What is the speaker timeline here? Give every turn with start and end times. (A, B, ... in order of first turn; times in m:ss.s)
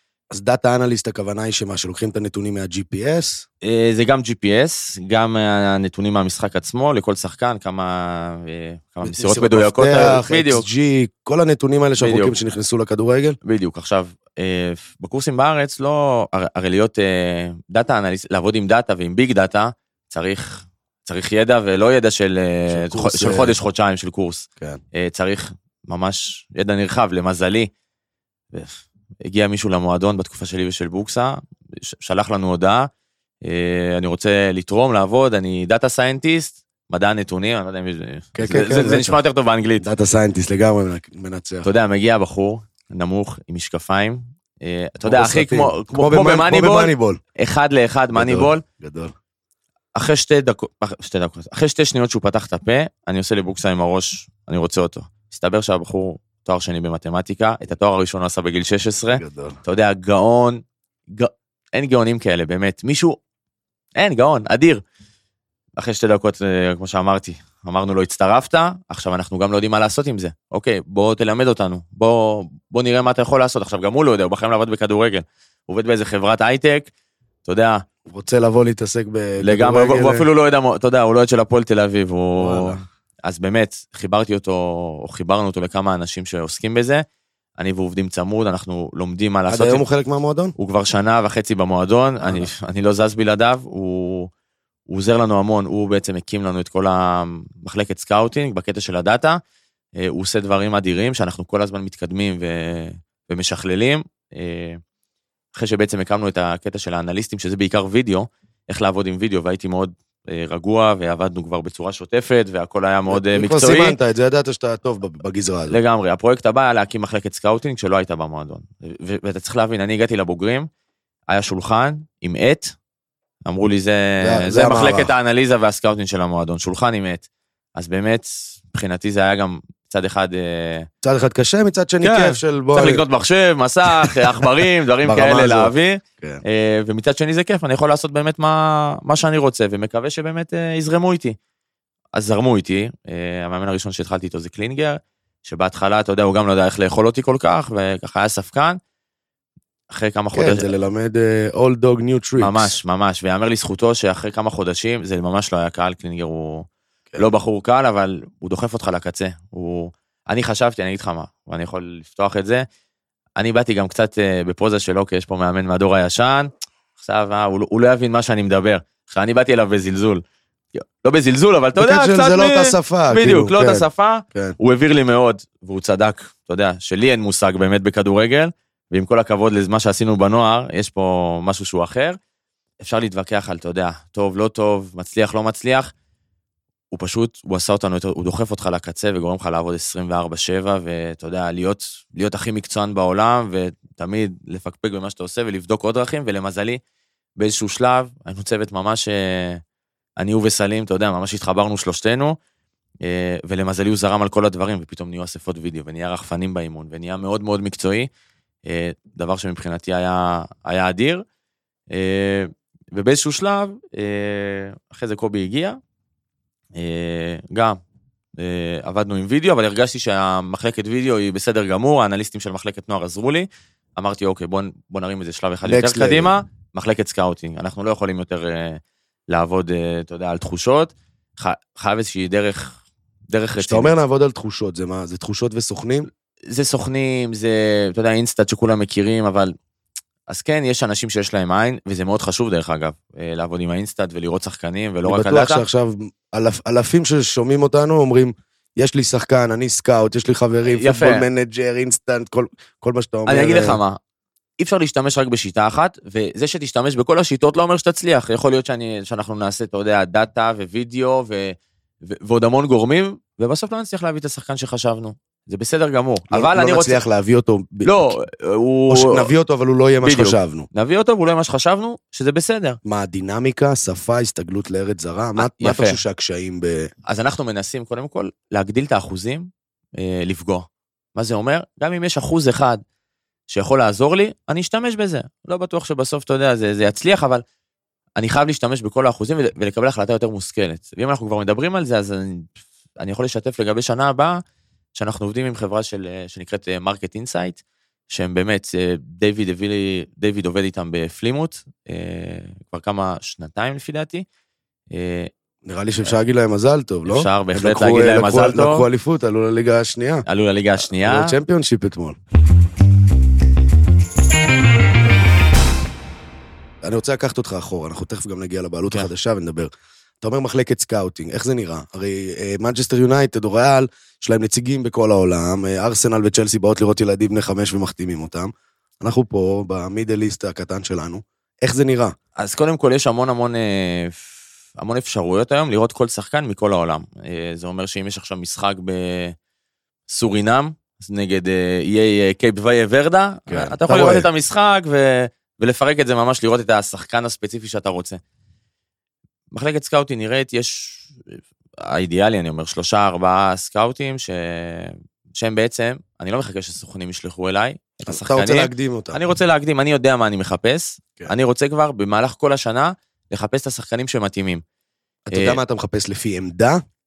0:00.3-0:03.5 A
0:03.6-0:10.7 B
0:09.0-0:13.4 A
0:12.0-0:12.4 B
0:13.4-0:27.7 B
0:22.7-0:23.6 A
0:28.5-0:32.9 B
0:33.4-0:39.9 B
0:38.4-0:39.2 A
0:39.8-0:41.7 A
0:41.6-0:48.6 B
0:45.0-0:47.2 A
0:48.1-0:49.1 A
0:50.0-1:03.2 B
0:59.1-0:59.6 A
1:04.0-1:04.8 B
1:05.8-1:16.9 B
1:17.4-1:17.9 B
1:18.1-1:20.3 A
1:19.4-1:27.0 B
1:22.4-1:22.8 A
1:27.6-1:29.8 B
1:29.5-1:30.6 A
1:30.6-1:34.3 B
1:32.2-1:32.5 A
1:34.9-1:39.4 B
1:40.0-1:44.8 B
1:45.6-1:54.0 B
1:53.1-1:55.8 A
1:55.7-2:00.7 B
2:01.3-2:02.8 B
2:03.4-2:10.9 B
2:04.2-2:05.1 A
2:11.0-2:13.0 A
2:12.0-2:21.4 B
2:15.0-2:16.4 A
2:22.1-2:28.8 B
2:29.9-2:30.7 B
2:30.3-2:32.8 A
2:32.4-2:42.6 B
2:43.4-2:50.2 B
2:50.7-3:02.2 B
2:51.8-2:54.6 A
3:02.8-3:05.9 B
3:06.9-3:16.8 B
3:17.4-3:19.6 B
3:20.2-3:22.4 B
3:23.0-3:28.1 B
3:28.6-3:31.2 B
3:31.9-3:35.8 B
3:36.8-3:37.8 B
3:38.4-3:52.8 B
3:45.6-3:46.3 A
3:53.3-3:54.0 B
3:53.6-3:56.1 A
3:56.5-3:59.6 B
4:00.3-4:05.6 B
4:05.0-4:13.8 A
4:10.7-4:11.3 B
4:13.3-4:14.0 B
4:14.6-4:27.0 B
4:26.3-4:28.2 A
4:27.8-4:29.3 B
4:28.9-4:30.7 A
4:30.0-4:32.8 B
4:32.8-4:36.9 A
4:35.4-4:36.0 B
4:37.1-4:42.8 B
4:43.5-4:47.4 B
4:48.2-4:54.4 B
4:55.0-5:04.2 B
5:04.9-5:05.3 B
5:05.6-5:10.2 A
5:07.1-5:08.9 B
5:10.3-5:11.4 B
5:10.8-5:12.2 A
5:16.8-5:19.7 A
5:20.2-5:32.2 A
5:32.4-5:39.4 B
5:40.1-5:48.2 B
5:43.5-5:44.3 A
5:49.5-6:04.6 B
5:58.0-5:59.2 A
6:05.3-6:06.8 A
6:05.3-6:05.6 B